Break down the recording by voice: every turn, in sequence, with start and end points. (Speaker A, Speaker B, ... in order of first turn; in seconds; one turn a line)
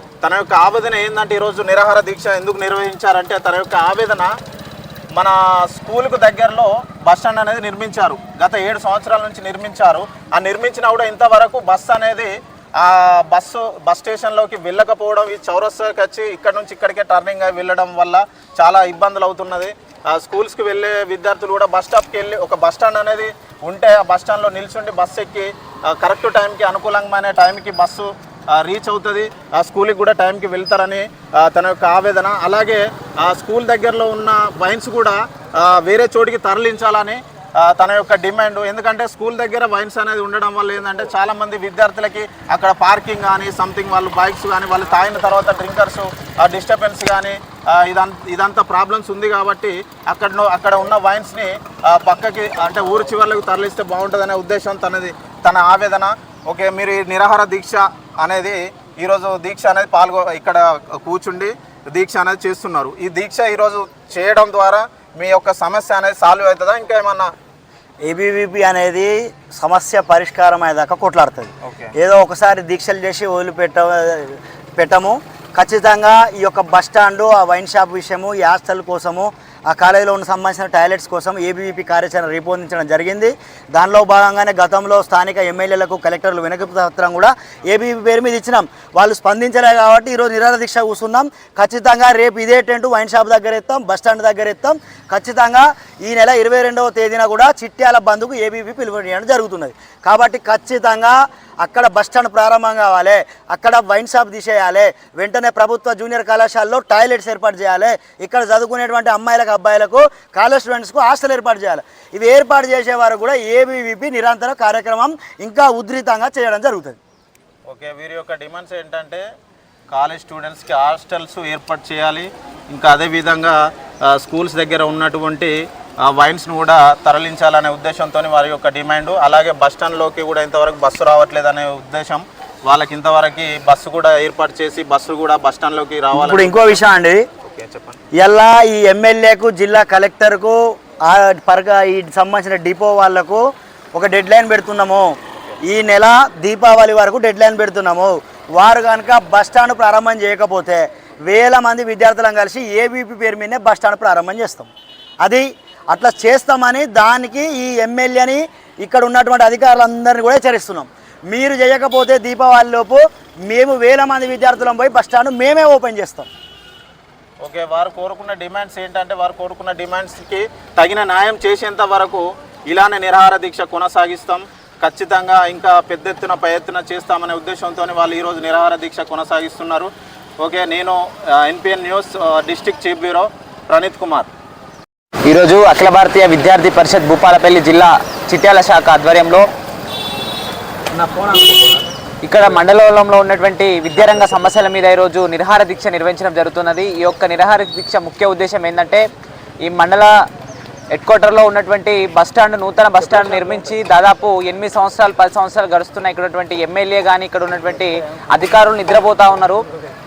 Speaker A: 0.2-4.3
Speaker A: 5.2-67.3
Speaker B: 68.0-117.0
Speaker A: 71.6-71.9
Speaker A: 117.7-119.2
Speaker A: 119.9-123.6
Speaker A: 124.1-136.8
Speaker B: 136.1-137.2
Speaker A: 137.4-138.0
Speaker B: 138.2-143.4
Speaker B: 143.9-145.1
Speaker B: 145.6-154.7
Speaker B: 155.2-166.3
Speaker A: 167.4-179.9
Speaker A: 180.4-184.3
Speaker C: 185.3-189.4
Speaker A: 191.0-191.4
Speaker C: 192.2-199.0
Speaker C: 199.7-200.1
Speaker C: 200.9-209.6